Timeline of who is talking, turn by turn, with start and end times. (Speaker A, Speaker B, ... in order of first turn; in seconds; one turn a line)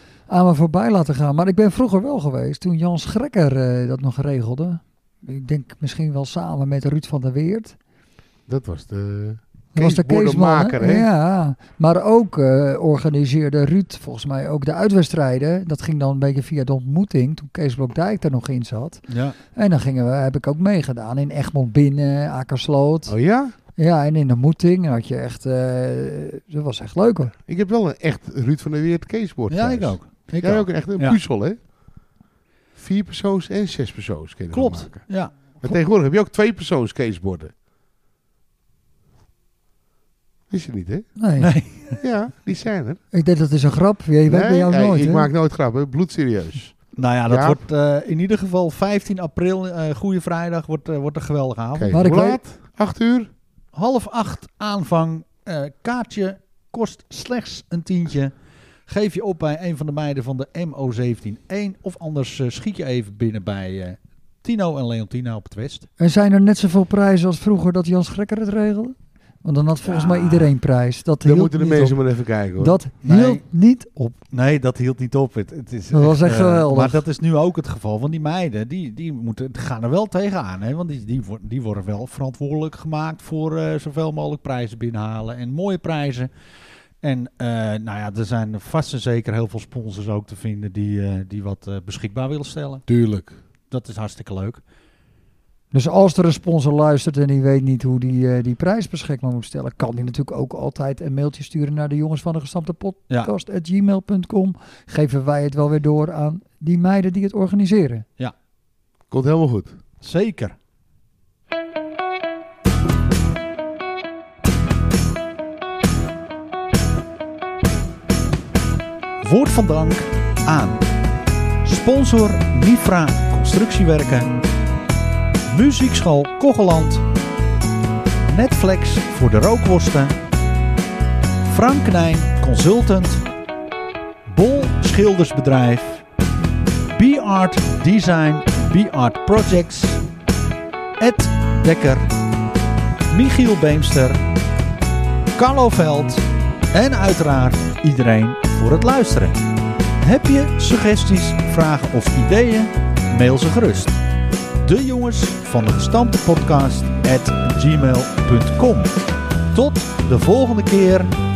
Speaker A: 0.3-7.8
Speaker B: 8.5-11.1
Speaker A: 9.7-23.2
Speaker C: 19.1-19.4
Speaker B: 23.1-23.6
Speaker A: 23.8-27.3
Speaker B: 27.5-31.6
Speaker C: 29.5-31.2
Speaker B: 32.8-35.1
Speaker C: 34.5-35.4
Speaker B: 35.6-37.5
Speaker B: 40.5-41.1
Speaker A: 41.2-41.5
Speaker C: 41.4-42.0
Speaker B: 42.0-43.0
Speaker A: 43.1-45.3
Speaker B: 44.3-47.6
Speaker C: 47.0-52.0
Speaker B: 51.8-53.3
Speaker A: 51.9-52.4
Speaker C: 53.7-58.3
Speaker C: 58.9-65.9
Speaker A: 66.0-72.0
Speaker C: 69.8-70.5
Speaker B: 71.2-72.8
Speaker A: 72.6-74.2
Speaker C: 73.0-73.4
Speaker C: 74.3-86.3
Speaker A: 75.9-77.0
Speaker C: 87.0-92.8
Speaker B: 92.9-93.4
Speaker C: 93.7-94.6
Speaker A: 95.7-108.0
Speaker B: 109.1-109.8
Speaker C: 110.0-110.5
Speaker C: 119.2-120.9
Speaker C: 121.6-124.4
Speaker C: 125.5-127.1
Speaker C: 128.2-130.2
Speaker C: 131.4-133.2
Speaker C: 134.3-136.0
Speaker C: 136.9-140.0
Speaker C: 141.0-142.1
Speaker C: 143.1-144.2
Speaker C: 145.3-149.5
Speaker C: 150.0-154.0
Speaker C: 154.6-161.1